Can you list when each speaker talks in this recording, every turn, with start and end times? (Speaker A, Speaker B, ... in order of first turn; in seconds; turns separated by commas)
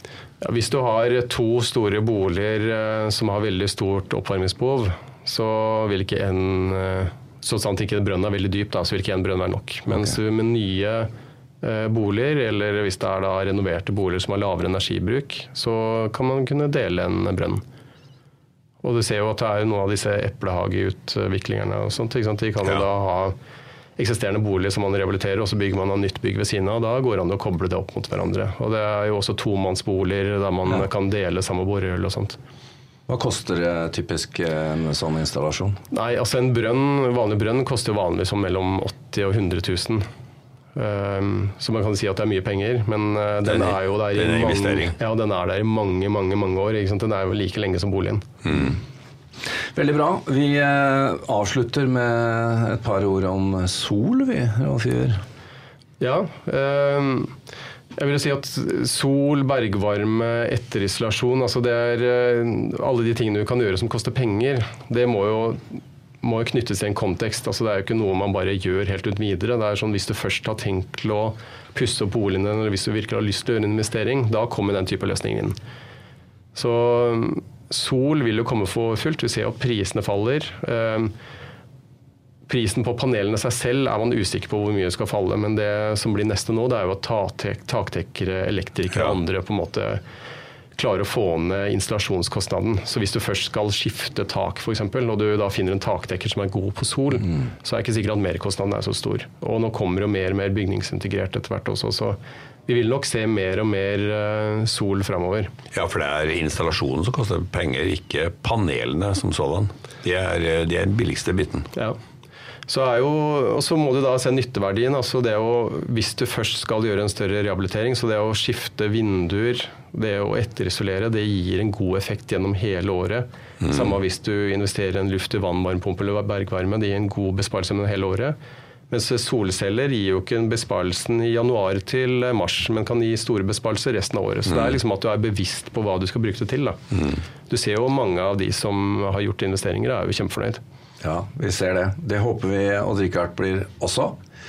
Speaker A: 0.4-11.1, Speaker A: 11.6-17.6, Speaker A: 18.8-23.4, Speaker A: 24.0-32.4, Speaker B: 33.1-35.8, Speaker A: 35.9-40.0, Speaker A: 40.8-48.3, Speaker C: 43.5-45.0, Speaker C: 48.5-48.8, Speaker B: 49.8-55.2, Speaker A: 56.0-57.3, Speaker A: 58.0-75.6, Speaker A: 76.5-81.1, Speaker A: 82.5-90.0, Speaker A: 90.8-105.5, Speaker C: 105.7-111.7, Speaker A: 112.7-128.4, Speaker C: 123.6-123.9, Speaker A: 128.9-136.8, Speaker C: 134.5-134.8, Speaker A: 137.5-140.6, Speaker B: 141.0-144.2